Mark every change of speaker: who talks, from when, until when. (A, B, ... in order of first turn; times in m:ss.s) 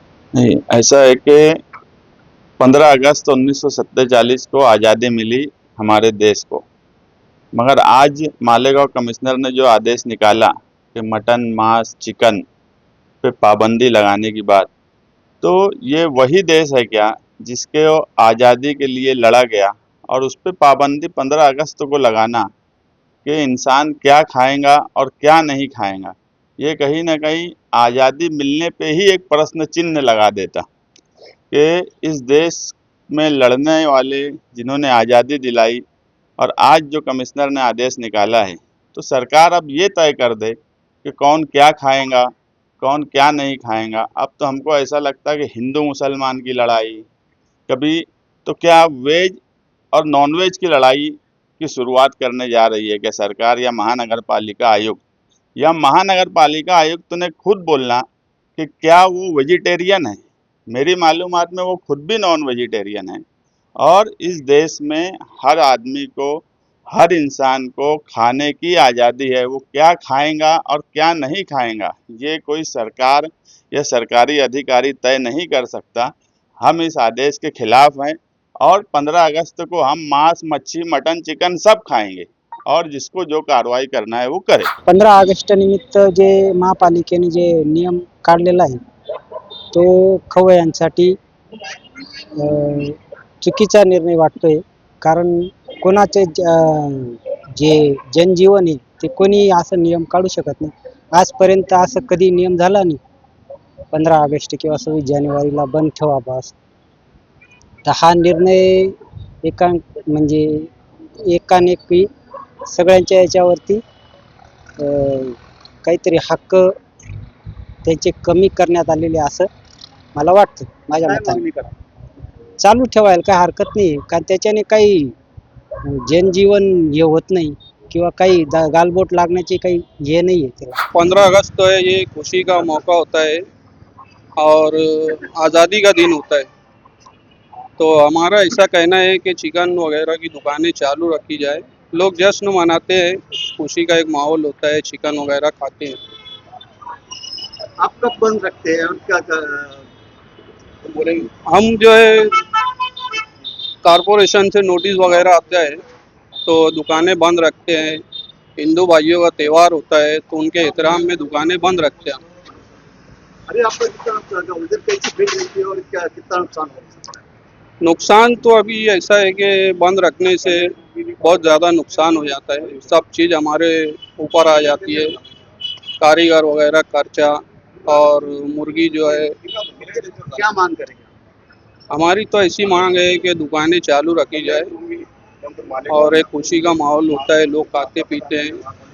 0:00.4-0:01.5 A
0:02.6-0:06.6 A
0:07.6-0:12.4 A
0:13.2-0:14.7 A
0:15.4-0:22.5 A
0:23.2-0:30.7 A
0:31.5-0:35.8 A
0:36.4-0:42.3 A
0:42.8-0:47.1 A
0:47.7-0:49.4 A
0:49.9-0:55.0 A
0:55.6-0:58.0 A
0:58.6-1:03.2 A
1:03.8-1:24.7 A
1:24.9-1:28.8 B
1:29.7-1:31.2 B
1:32.4-1:43.0 B
1:43.9-1:46.5 B
1:47.8-1:50.7 B
1:51.3-1:52.1 B
1:52.7-1:53.8 B
1:54.8-1:56.7 B
1:57.8-1:59.5 B
2:00.2-2:01.4 B
2:01.1-2:01.7 C
2:02.6-2:05.1 B
2:06.0-2:10.8 B
2:10.9-2:13.4 D
2:14.4-2:16.5 D
2:17.8-2:26.0 D
2:27.8-2:29.8 C
2:30.9-2:32.4 D
2:33.8-2:35.8 D
2:36.5-2:38.0 D
2:38.6-2:42.2 D
2:43.5-2:47.2 C
2:47.8-2:50.6 D
2:51.2-2:55.2 D
2:56.0-2:59.3 D
2:59.6-3:01.1 C
3:01.9-3:04.7 D
3:05.7-3:05.9 C
3:05.9-3:08.6 D